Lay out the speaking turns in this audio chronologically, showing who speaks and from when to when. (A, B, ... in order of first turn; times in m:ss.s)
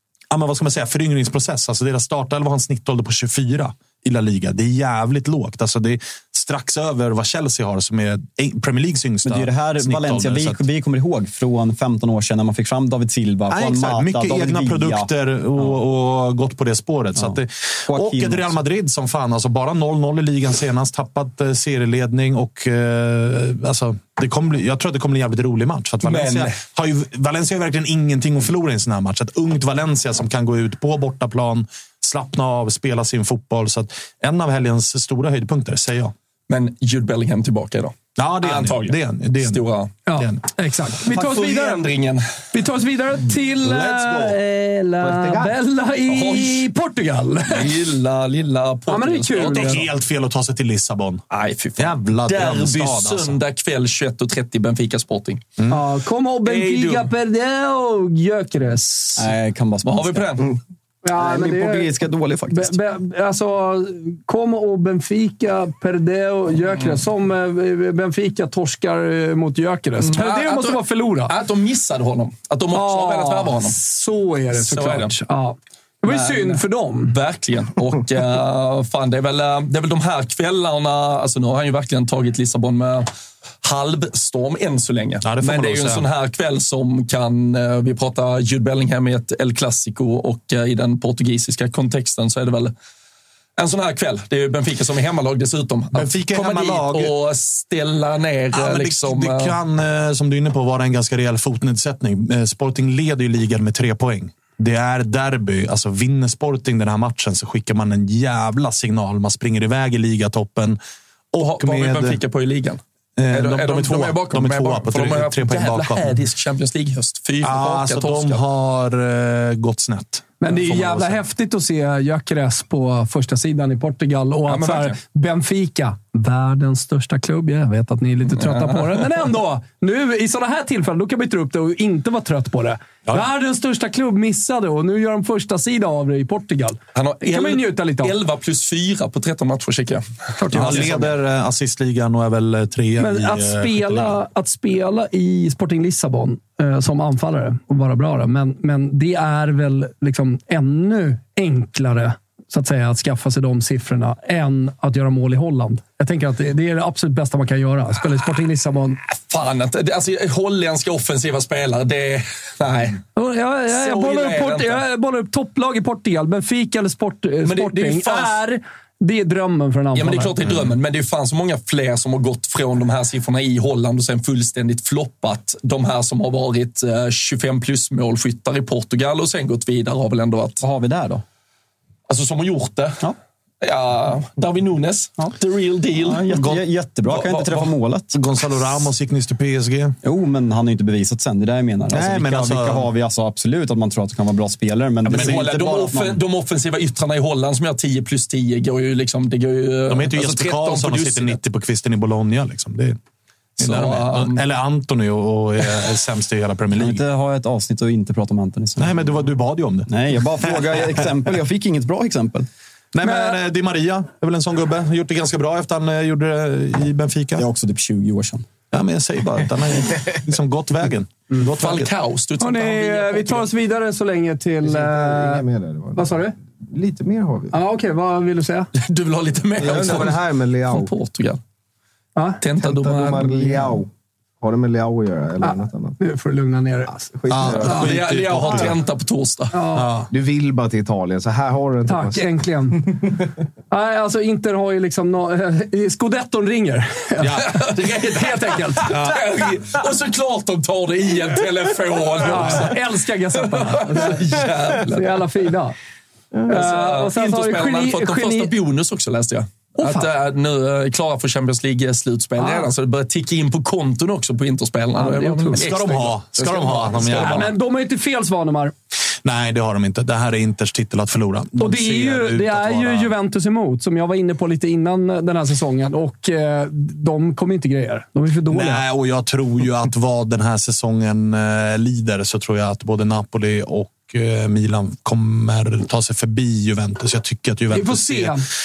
0:00.3-0:10.6 A
0:09.2-0:15.8 B
0:13.5-0:36.1 A
0:17.9-0:18.6 B
0:26.0-0:26.6 C
0:36.5-0:39.9 C
0:38.2-0:39.6 A
0:40.1-0:41.9 D
0:40.1-0:40.4 A
0:41.1-0:42.3 C
0:42.5-0:47.7 D
0:43.6-0:44.4 A
0:46.1-0:46.7 C
0:47.5-0:49.8 C
0:48.9-0:49.8 D
0:49.4-0:51.2 A
0:51.3-0:55.5 C
0:51.8-0:53.4 A
0:55.6-0:55.8 A
0:55.7-0:59.3 D
0:56.4-0:57.1 C
0:59.2-1:00.5 B
0:59.8-1:00.6 C
1:01.0-1:02.0 D
1:01.1-1:02.8 B
1:02.5-1:11.3 D
1:10.0-1:13.8 C
1:12.7-1:17.1 D
1:14.5-1:15.1 C
1:16.1-1:23.1 C
1:23.6-1:32.7 C
1:25.2-1:26.1 A
1:33.6-1:39.6 C
1:35.9-1:37.1 A
1:38.5-1:50.8 A
1:51.3-1:52.2 A
1:51.4-1:58.4 C
1:53.2-1:56.2 A
1:57.4-2:01.2 A
2:00.4-2:18.2 D
2:04.5-2:05.0 C
2:08.4-2:09.0 C
2:17.0-2:21.1 C
2:20.4-2:20.9 D
2:20.5-2:24.2 A
2:23.0-2:39.0 D
2:39.3-2:43.0 C
2:43.2-2:50.3 D
2:43.7-2:44.8 C
2:47.4-2:48.4 C
2:50.0-3:00.6 C
3:00.6-3:01.2 B
3:02.1-3:03.0 C
3:03.6-3:07.7 C
3:05.9-3:08.2 B
3:08.1-3:10.0 A
3:10.0-3:16.2 B
3:11.9-3:12.9 A
3:15.1-3:21.4 C
3:15.1-3:15.5 A
3:19.9-3:23.0 A
3:23.6-3:27.0 A
3:23.6-3:24.4 C
3:26.7-3:29.2 B
3:28.8-3:30.8 A
3:29.9-3:32.5 B
3:32.9-3:37.5 A
3:33.0-3:33.4 D
3:37.4-3:38.5 B
3:38.7-3:41.9 A
3:41.6-3:43.5 C
3:42.4-3:45.4 D
3:44.6-3:47.5 E
3:46.0-3:46.4 D
3:47.5-3:48.7 D
3:48.8-3:51.4 C
3:49.6-3:50.9 E
3:52.2-3:52.4 D
3:52.4-3:53.7 C
3:52.6-3:53.9 E
3:54.4-3:56.0 E
3:55.4-3:57.1 D
3:57.1-3:58.0 E
3:57.3-3:58.8 A
3:57.6-3:59.5 C
3:59.5-3:59.9 D
3:59.7-4:00.1 A
4:00.1-4:03.1 E
4:01.9-4:03.0 D
4:03.7-4:09.0 D
4:07.2-4:07.5 A
4:07.4-4:12.8 C
4:08.9-4:09.2 A
4:12.2-4:14.2 D
4:13.5-4:15.2 C
4:14.8-4:15.8 D
4:16.5-4:18.5 D
4:16.5-4:27.5 C
4:19.8-4:20.1 D
4:22.4-4:22.7 D
4:25.0-4:25.6 D
4:25.5-4:27.5 A
4:27.1-4:28.7 D
4:29.2-4:33.1 A
4:31.6-4:38.8 D
4:38.5-4:48.4 A
4:47.7-4:48.4 D